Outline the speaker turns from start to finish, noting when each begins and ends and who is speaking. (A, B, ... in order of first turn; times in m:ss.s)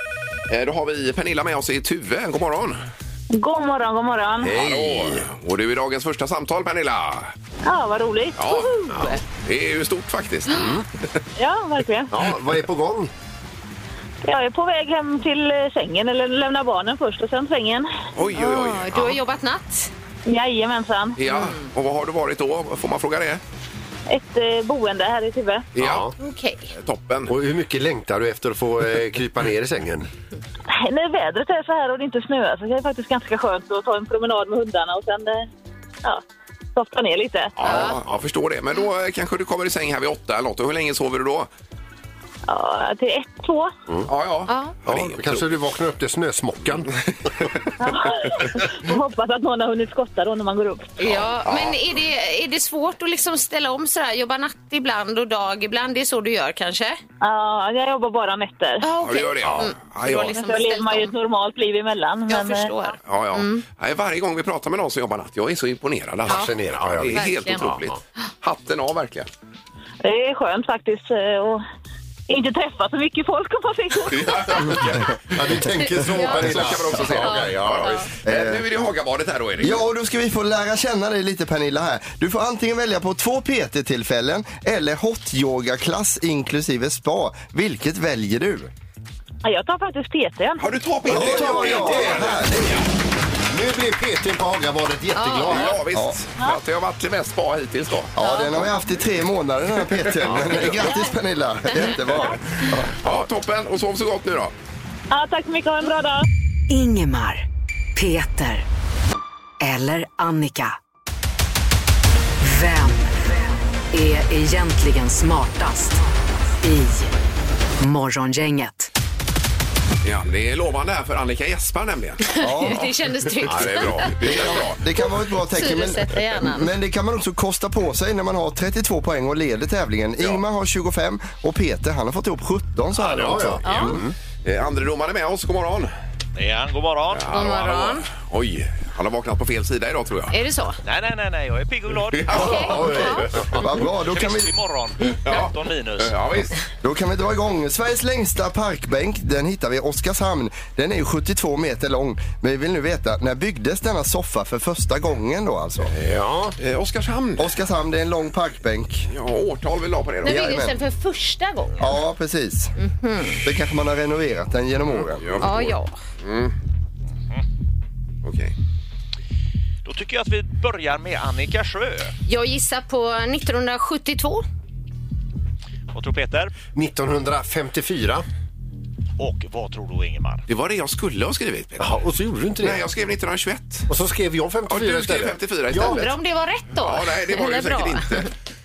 0:00.5-0:02.8 A
0:03.3-0:04.5 B
0:04.4-0:05.3 C
0:04.6-0:07.3 A
0:07.6-0:08.7 B
0:08.4-0:08.7 A
0:08.9-0:09.2 C
0:09.4-0:10.7 A
0:10.5-0:10.8 C
0:11.4-0:12.1 B
0:12.1-0:13.1 C
0:14.2-0:17.9 B
0:18.1-0:19.0 A
0:18.3-0:19.9 D
0:20.2-0:21.2 B
0:21.2-0:23.4 A
0:21.3-0:21.6 D
0:24.1-0:25.7 B
0:25.8-0:26.1 A
0:25.8-0:26.1 C
0:26.2-0:26.7 D
0:26.7-0:27.3 A
0:27.3-0:30.1 C
0:30.7-0:35.5 B
0:36.7-0:37.5 B
0:37.6-0:38.2 C
0:37.6-0:41.5 A
0:37.6-0:38.0 D
0:42.5-0:43.7 B
0:44.0-0:45.5 A
0:44.5-0:44.7 D
0:44.8-0:47.0 C
0:47.8-0:51.1 B
0:51.0-0:57.0 D
0:57.2-0:58.9 B
0:58.8-1:01.1 D
0:59.0-1:00.4 A
0:59.4-0:59.7 C
1:00.1-1:02.7 B
1:02.3-1:03.6 D
1:03.1-1:09.3 A
1:06.3-1:07.9 C
1:07.1-1:07.8 D
1:10.0-1:11.6 B
1:12.3-1:14.8 B
1:14.1-1:15.0 A
1:14.7-1:18.0 C
1:16.0-1:16.6 D
1:16.3-1:19.8 A
1:17.1-1:18.1 D
1:18.2-1:18.6 E
1:19.6-1:28.7 E
1:29.4-1:30.7 B
1:30.6-1:32.9 A
1:31.0-1:32.4 C
1:31.0-1:32.8 E
1:33.5-1:35.8 C
1:35.1-1:35.8 D
1:35.5-1:38.1 A
1:35.9-1:36.2 E
1:38.2-1:43.0 E
1:38.2-1:38.7 D
1:40.2-1:40.8 C
1:43.0-1:44.5 A
1:45.1-1:46.2 B
1:46.7-1:47.4 F
1:48.0-1:48.6 F
1:49.6-1:50.8 F
1:52.4-1:53.4 F
1:53.9-1:57.1 F
1:57.8-1:58.9 F
2:00.0-2:02.2 A
2:02.2-2:04.3 D
2:02.4-2:03.0 E
2:03.4-2:04.2 C
2:03.6-2:04.8 A
2:04.2-2:13.9 E
2:05.5-2:06.7 D
2:13.0-2:14.1 C
2:13.6-2:14.0 D
2:13.7-2:15.9 A
2:16.4-2:17.5 G
2:17.1-2:20.3 A
2:17.3-2:18.1 D
2:20.3-2:20.8 D
2:20.8-2:22.8 G
2:22.2-2:22.6 A
2:22.3-2:23.3 D
2:22.3-2:24.5 E
2:22.5-2:23.7 C
2:24.0-2:26.2 G
2:25.2-2:26.5 A
2:26.8-2:35.9 E
2:35.8-2:36.6 C
2:36.6-2:37.5 A
2:37.4-2:39.1 E
2:39.1-2:40.6 A
2:40.2-2:40.8 E
2:40.2-2:41.9 D
2:41.8-2:42.7 E
2:42.8-2:43.4 D
2:43.4-2:45.5 E
2:44.9-2:46.5 A
2:45.4-2:46.0 D
2:48.2-2:48.5 A
2:49.8-2:52.1 G
2:52.3-2:54.4 D
2:55.9-2:56.5 G
2:56.7-2:58.2 C
2:59.2-3:00.4 G
3:00.5-3:02.0 A
3:01.8-3:02.8 C
3:02.6-3:03.9 A
3:03.9-3:06.1 C
3:04.7-3:06.1 A
3:05.7-3:08.3 D
3:06.7-3:08.3 A